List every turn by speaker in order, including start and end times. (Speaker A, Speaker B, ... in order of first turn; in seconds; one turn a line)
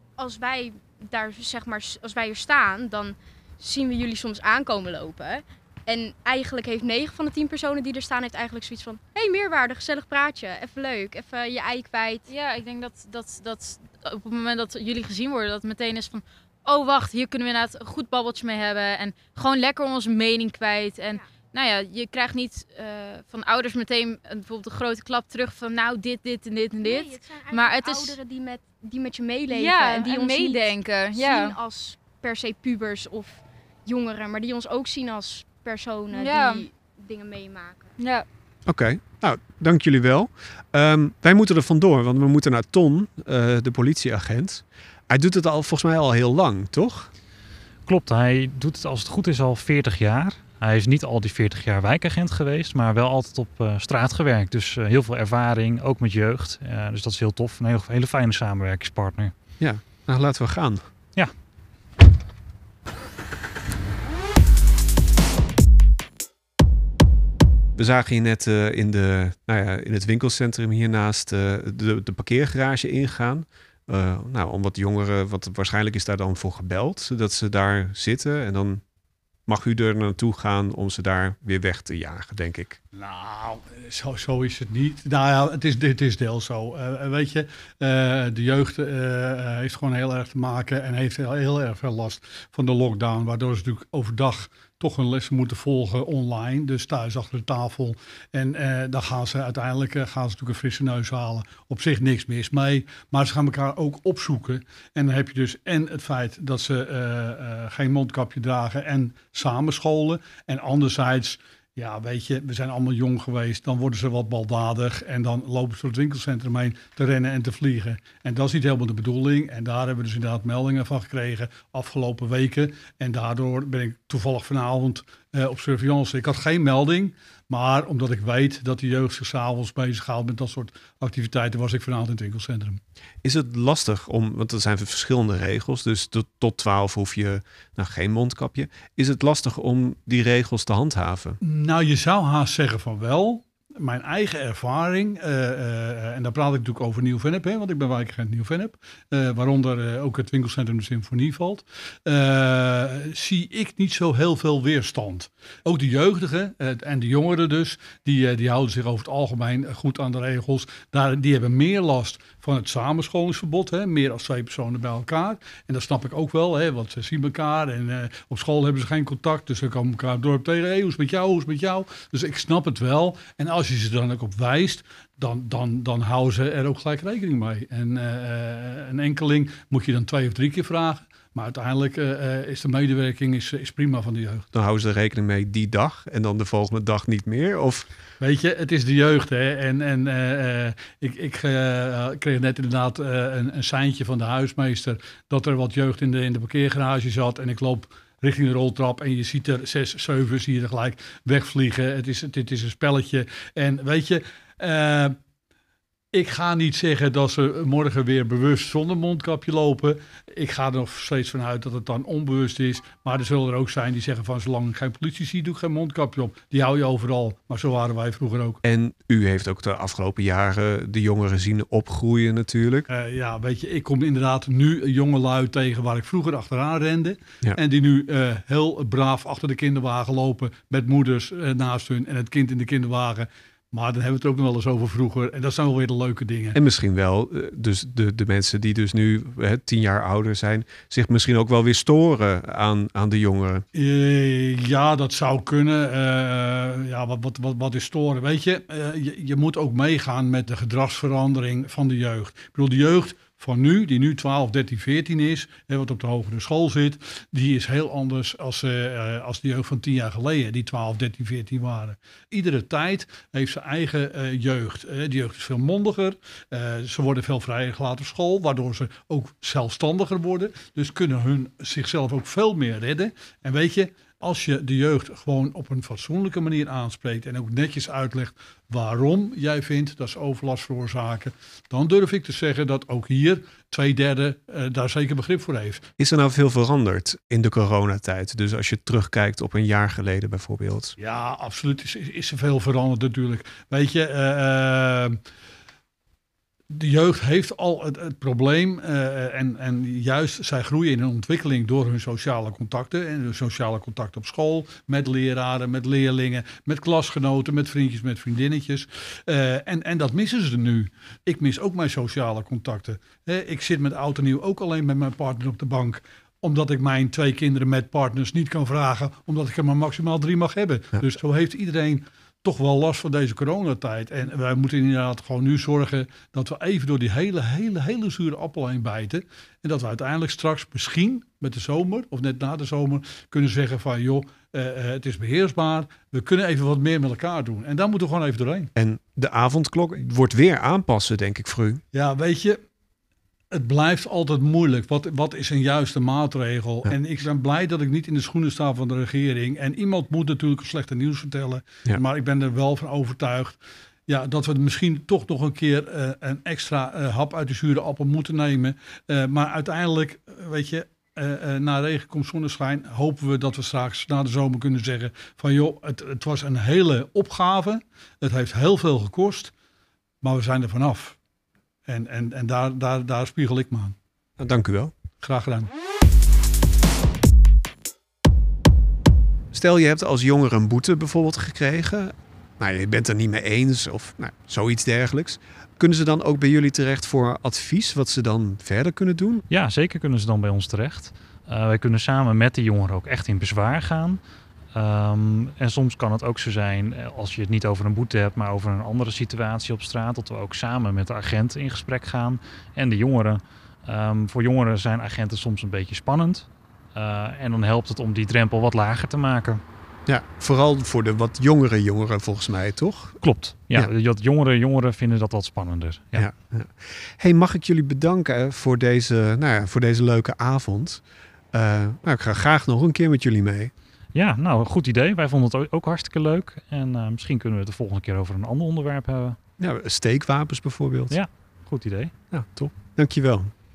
Speaker A: 0.2-12.3
Speaker B: 12.3-28.2
Speaker A: 26.8-38.0
Speaker B: 29.5-31.6
Speaker B: 36.1-36.6
Speaker B: 38.0-38.3
Speaker C: 38.7-47.1
Speaker D: 47.9-59.3
Speaker C: 59.6-60.8
Speaker C: 67.8-78.8
Speaker C: 79.5-82.8
Speaker E: 83.0-132.8
Speaker C: 133.2-141.4
Speaker E: 141.4-184.4
Speaker C: 184.5-187.9
Speaker E: 188.2-205.2
Speaker E: 206.1-218.6
Speaker C: 218.6-222.9
Speaker E: 222.9-236.6
Speaker C: 236.5-243.7
Speaker E: 243.8-285.9
Speaker C: 286.0-290.9
Speaker E: 291.0-295.2
Speaker E: 296.7-338.7
Speaker C: 338.8-341.8
Speaker E: 341.9-342.6
Speaker E: 343.5-369.5
Speaker E: 370.2-371.2
Speaker E: 371.9-374.0
Speaker C: 374.4-374.9
Speaker E: 375.2-375.7
Speaker C: 379.5-389.4
Speaker D: 389.5-394.2
Speaker D: 394.7-409.6
Speaker C: 410.1-413.2
Speaker D: 413.2-416.3
Speaker C: 416.1-423.7
Speaker D: 424.1-429.4
Speaker C: 429.6-431.2
Speaker D: 431.1-432.1
Speaker C: 432.3-433.5